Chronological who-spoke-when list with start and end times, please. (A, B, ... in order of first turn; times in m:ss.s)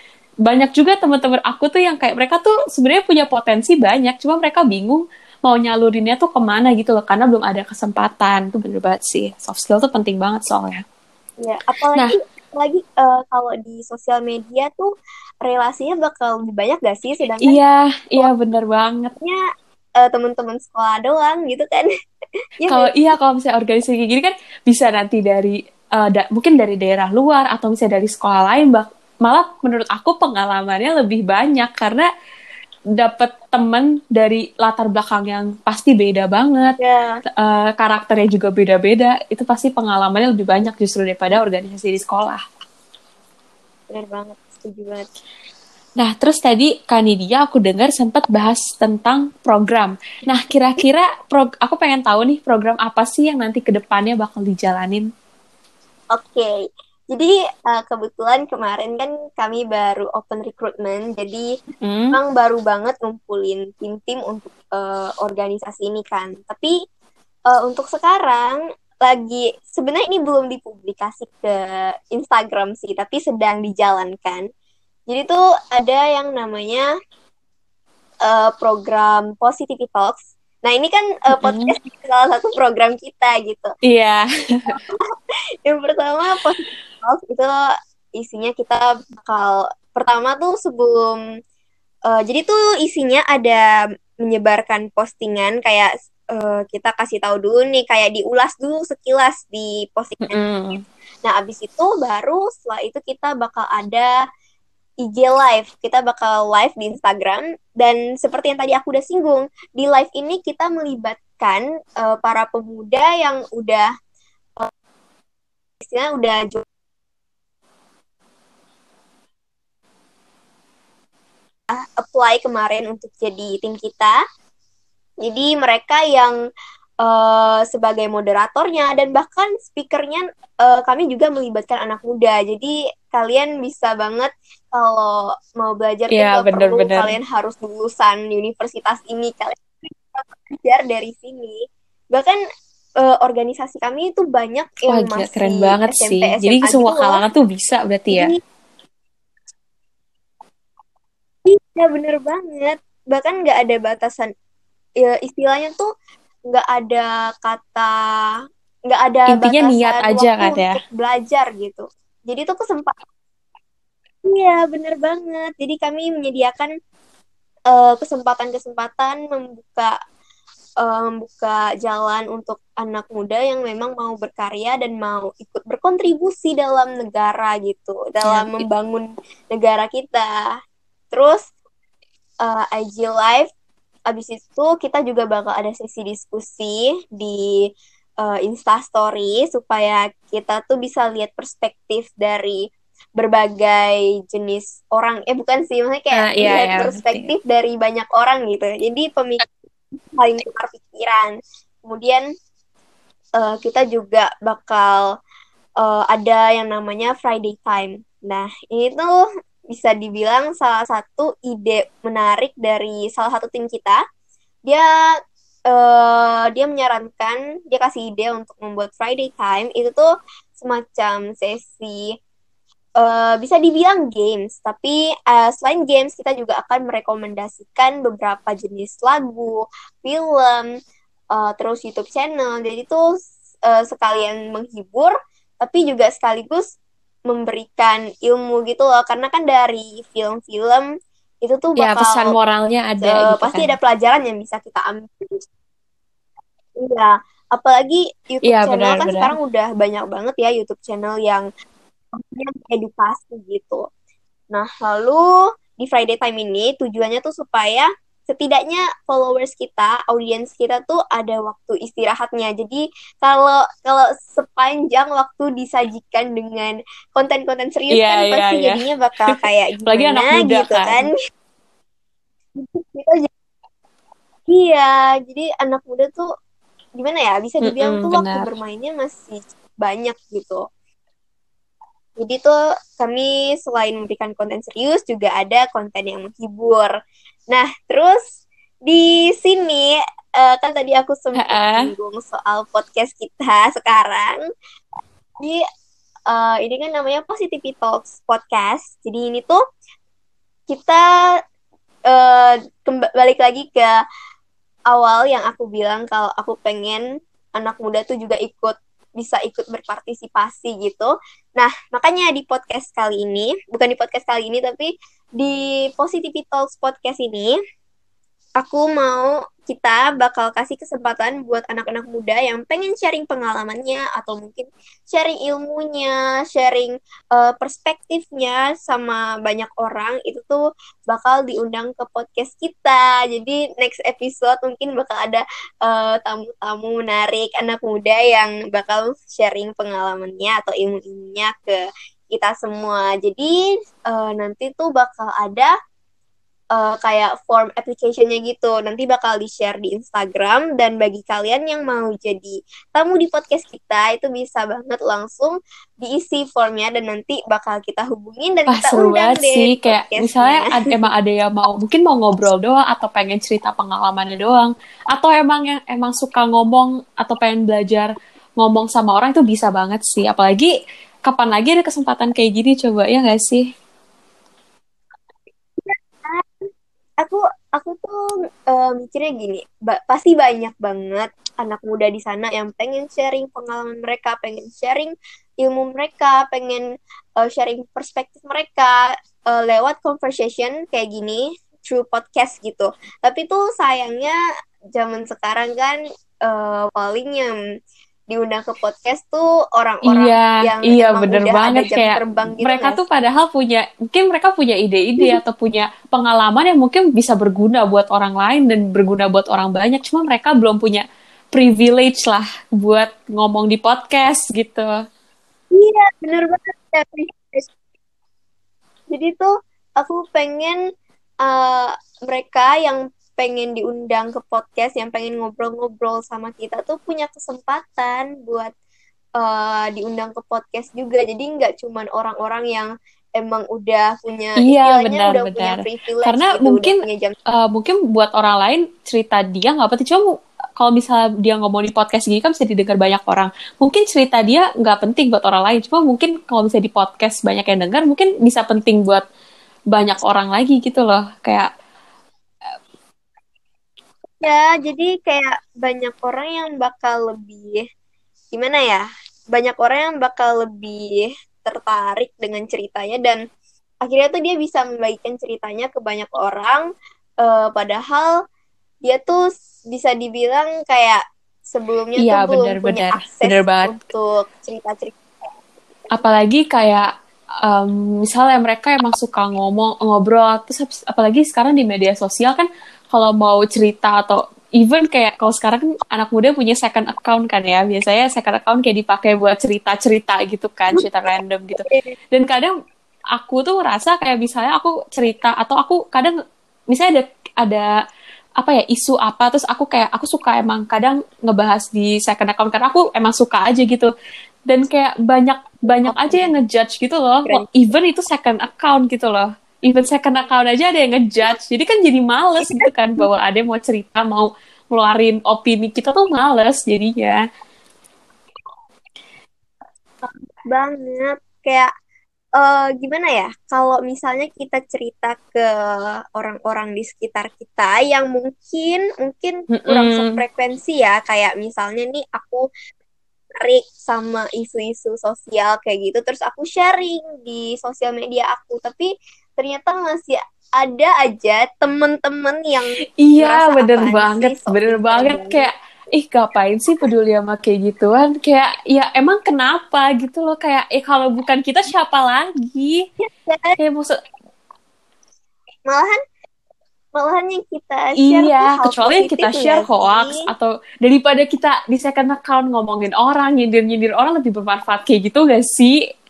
0:00.4-0:10.8 A
0:11.4-0:14.9 B
0:15.4-0:17.6 B
0:17.4-0:19.1 A
0:20.0-0:21.9 B
0:22.6-0:22.9 B
0:22.7-0:32.1 A
0:33.0-0:36.8 A
0:36.8-0:37.2 B
0:37.4-0:42.4 A
0:43.9-0:45.1 B
0:46.0-0:55.1 A
0:56.1-0:56.6 B
0:57.1-1:01.5 B
1:01.8-1:02.2 A
1:02.1-1:06.7 B
1:07.5-1:14.5 B
1:15.1-1:16.9 B
1:18.2-1:23.7 B
1:21.3-1:21.8 A
1:23.8-1:24.8 A
1:24.7-1:25.0 B
1:25.7-1:27.6 B
1:28.2-1:31.2 B
1:32.1-1:33.7 B
1:34.2-1:40.4 B
1:40.3-1:40.8 A
1:41.2-1:44.1 B
1:45.0-1:53.9 B
1:55.8-1:56.6 B
2:01.7-2:04.2 B
2:05.2-2:06.4 B
2:07.0-2:21.6 B
2:16.1-2:17.1 A
2:23.0-2:27.2 B
2:24.9-2:28.3 A
2:28.1-2:28.4 B
2:31.5-2:34.3 B
2:35.0-2:35.9 B
2:36.5-2:38.0 B
2:38.9-2:43.0 B
2:39.3-2:40.8 A
2:44.2-2:46.7 B
2:47.7-2:49.9 B
2:50.8-3:00.3 B
2:58.2-2:58.7 A
3:01.1-3:01.4 B
3:02.4-3:03.5 B
3:04.1-3:07.5 B
3:08.2-3:12.6 B
3:13.2-3:19.5 B
3:16.2-3:17.3 A
3:20.1-3:21.3 B
3:21.9-3:22.3 B
3:23.4-3:25.0 B
3:25.8-3:34.0 B
3:35.7-3:40.1 B
3:40.6-3:42.1 B
3:43.0-3:50.7 B
3:51.3-3:53.1 B
3:53.7-3:56.7 B
3:57.3-4:00.9 B
4:01.4-4:02.3 B
4:01.8-4:03.8 A
4:03.0-4:05.4 B
4:06.8-4:11.5 B
4:08.4-4:09.4 A
4:12.1-4:13.8 B
4:14.5-4:31.1 B
4:27.9-4:28.8 A
4:29.9-4:31.1 A
4:32.6-4:33.3 B
4:34.5-4:36.3 B
4:37.0-4:40.6 B
4:37.6-4:38.5 A
4:42.2-4:46.9 B
4:47.5-4:48.2 B
4:48.9-4:54.4 B
4:51.4-4:51.9 A
4:56.3-4:59.6 B
5:00.7-5:01.0 B
5:02.1-5:04.0 B
5:04.9-5:07.0 B
5:07.6-5:17.6 B
5:18.6-5:41.8 B
5:42.3-5:45.7 B
5:46.7-6:00.7 B
5:58.7-6:10.7 A
6:11.2-6:13.7 A
6:15.8-6:16.5 B
6:17.2-6:26.9 B
6:27.4-6:34.4 B
6:35.0-6:37.6 B
6:38.3-6:43.0 B
6:40.0-6:55.0 A
6:55.7-6:57.7 B
6:59.1-7:00.8 B
7:01.4-7:08.7 B
7:09.4-7:17.3 B
7:14.6-7:17.0 A
7:17.5-7:29.2 A
7:29.9-7:31.7 A
7:34.4-7:37.8 B
7:38.5-7:43.4 B
7:44.0-7:46.9 B
7:47.4-7:48.3 B
7:49.0-7:51.2 B
7:51.7-7:55.2 B
7:52.2-7:54.0 A
7:56.1-7:57.1 A
7:57.7-8:12.7 A
8:11.8-8:12.1 B
8:13.4-8:16.4 A
8:16.9-8:17.9 A
8:18.6-8:24.1 A
8:24.7-8:37.4 A
8:25.9-8:26.5 B
8:32.6-8:33.2 B
8:40.2-8:41.9 B
8:42.6-8:52.7 B
8:49.7-8:50.4 A
8:53.6-9:05.7 B
9:03.2-9:13.1 A
9:13.2-9:13.8 B
9:13.8-9:14.2 A
9:15.9-9:16.2 B
9:17.2-9:20.4 B
9:18.2-9:26.1 A